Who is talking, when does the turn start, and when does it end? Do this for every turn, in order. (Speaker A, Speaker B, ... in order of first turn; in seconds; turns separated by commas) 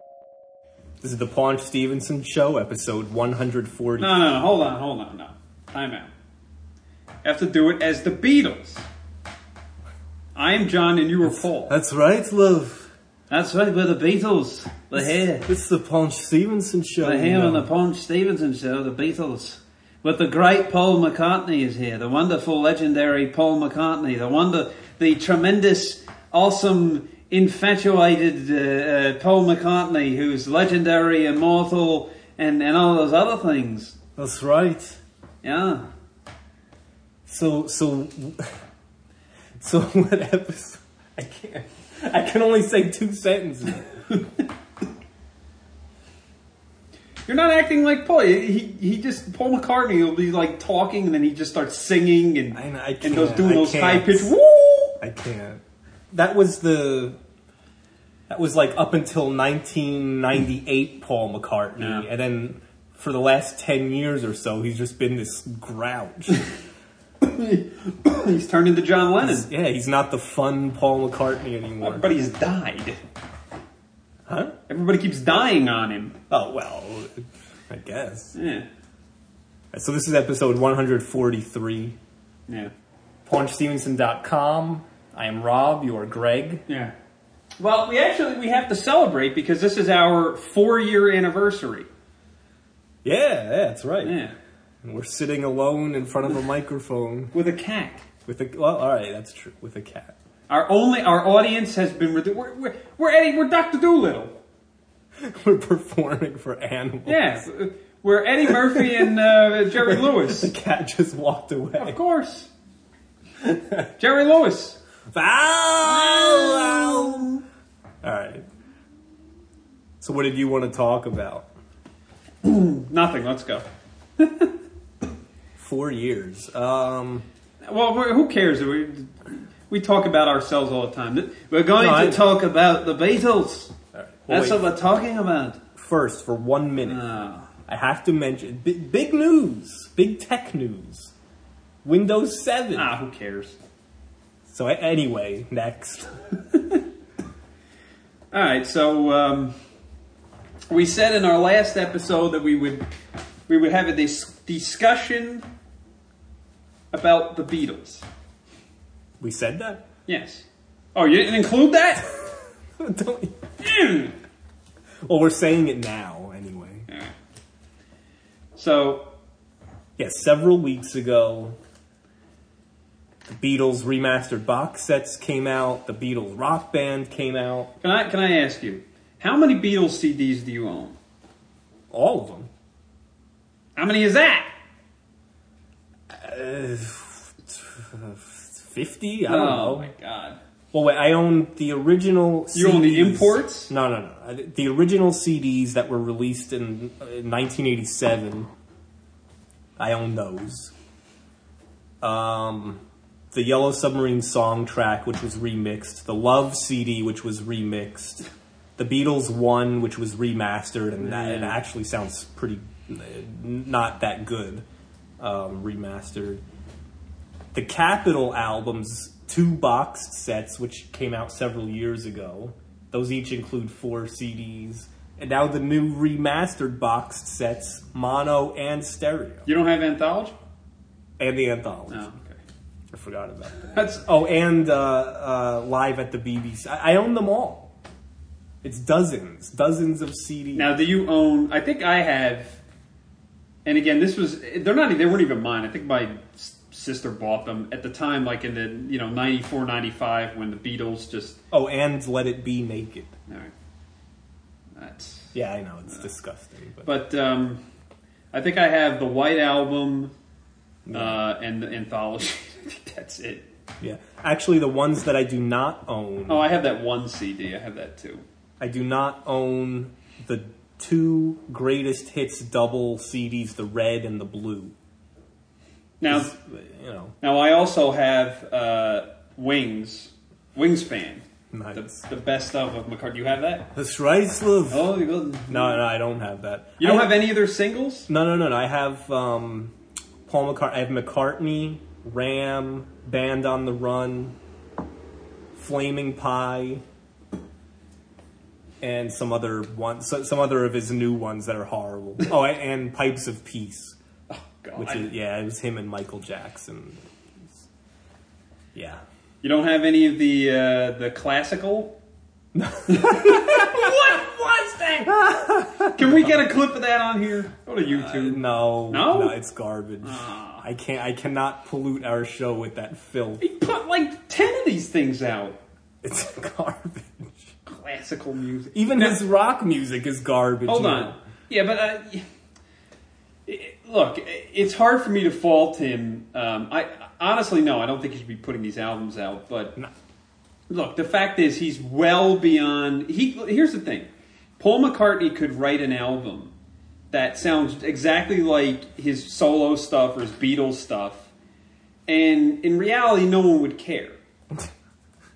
Speaker A: 1.0-4.3, Speaker B: 4.0-6.1, Speaker B: 7.2-8.8, Speaker B: 10.3-11.7, Speaker A: 11.2-12.9, Speaker B: 13.3-15.5, Speaker A: 15.0-17.7, Speaker B: 17.0-34.0, Speaker A: 34.1-35.0, Speaker B: 35.4-35.9, Speaker A: 37.2-38.5, Speaker A: 39.6-44.0, Speaker B: 47.3-55.0, Speaker A: 52.5-54.3, Speaker A: 55.0-57.2, Speaker A: 58.3-66.5, Speaker B: 61.8-62.1, Speaker B: 67.2-69.5, Speaker A: 69.2-72.1, Speaker B: 71.8-73.0, Speaker A: 74.3-74.5, Speaker B: 74.7-76.2, Speaker A: 76.3-78.3, Speaker B: 78.3-78.7, Speaker A: 79.7-82.0, Speaker A: 83.2-86.6, Speaker B: 86.7-86.9, Speaker B: 87.6-91.9, Speaker A: 93.0-94.2, Speaker B: 94.0-94.3, Speaker A: 94.8-97.3, Speaker B: 97.3-98.0, Speaker A: 98.2-100.1, Speaker B: 100.5-104.4, Speaker A: 105.2-107.4, Speaker B: 107.0-110.5, Speaker A: 108.4-109.1, Speaker A: 109.8-112.0, Speaker B: 111.7-112.5, Speaker A: 113.4-113.9, Speaker B: 114.0-114.8, Speaker A: 115.1-117.3, Speaker B: 115.8-117.4, Speaker A: 118.0-118.4, Speaker A: 120.0-121.5, Speaker B: 122.4-123.6, Speaker B: 124.2-124.5, Speaker A: 125.6-127.2, Speaker B: 127.6-133.7, Speaker A: 131.8-132.3, Speaker A: 133.9-134.7, Speaker B: 134.3-135.6, Speaker A: 135.8-137.0, Speaker B: 136.8-137.5, Speaker A: 137.7-141.1, Speaker A: 141.8-142.9, Speaker B: 142.7-143.6, Speaker A: 144.5-146.3, Speaker B: 148.3-149.5, Speaker B: 150.7-152.8, Speaker B: 153.5-155.4, Speaker B: 156.9-158.0, Speaker A: 159.2-159.8, Speaker B: 160.1-162.1, Speaker A: 162.8-163.4, Speaker B: 163.6-164.2, Speaker A: 165.0-166.9, Speaker B: 166.9-167.1, Speaker B: 168.6-169.1, Speaker A: 170.0-171.6, Speaker A: 173.2-177.7, Speaker B: 177.8-180.9, Speaker A: 181.9-182.5, Speaker B: 183.8-184.5, Speaker A: 186.1-189.9, Speaker B: 189.2-190.4, Speaker A: 190.7-198.5, Speaker B: 192.5-193.7, Speaker A: 199.8-200.7, Speaker A: 202.0-214.6, Speaker B: 211.0-211.6, Speaker A: 215.2-216.4, Speaker A: 217.5-229.5, Speaker B: 229.4-230.3, Speaker A: 231.2-232.0, Speaker B: 231.9-232.4, Speaker A: 232.9-237.7, Speaker B: 233.6-234.0, Speaker A: 238.6-240.7, Speaker B: 240.5-242.6, Speaker B: 243.6-251.4, Speaker A: 251.5-253.1, Speaker B: 254.8-255.3, Speaker A: 255.3-256.9, Speaker B: 256.8-257.6, Speaker B: 258.3-260.1, Speaker A: 260.9-261.2, Speaker B: 260.9-263.5, Speaker A: 263.8-266.5, Speaker B: 266.3-268.2, Speaker A: 268.6-274.7, Speaker B: 276.0-276.3, Speaker A: 276.1-277.1, Speaker B: 277.2-283.7, Speaker A: 281.5-282.0, Speaker A: 283.7-285.0, Speaker B: 284.7-285.8, Speaker A: 285.5-287.3, Speaker B: 286.8-288.1, Speaker A: 288.1-289.7, Speaker A: 290.2-294.3, Speaker A: 295.5-296.8, Speaker A: 298.8-303.9, Speaker B: 304.3-305.1, Speaker A: 304.7-307.0, Speaker A: 308.7-309.0, Speaker B: 309.4-311.9, Speaker A: 312.5-314.0, Speaker B: 312.9-315.2, Speaker A: 315.1-316.4, Speaker B: 315.9-319.4, Speaker A: 317.9-323.4, Speaker B: 320.0-320.6, Speaker B: 323.4-325.6, Speaker A: 326.0-327.5, Speaker B: 327.6-329.2, Speaker A: 328.7-331.1, Speaker B: 330.7-332.2, Speaker B: 333.5-339.8, Speaker B: 340.7-346.5, Speaker B: 347.1-351.3, Speaker B: 352.1-354.2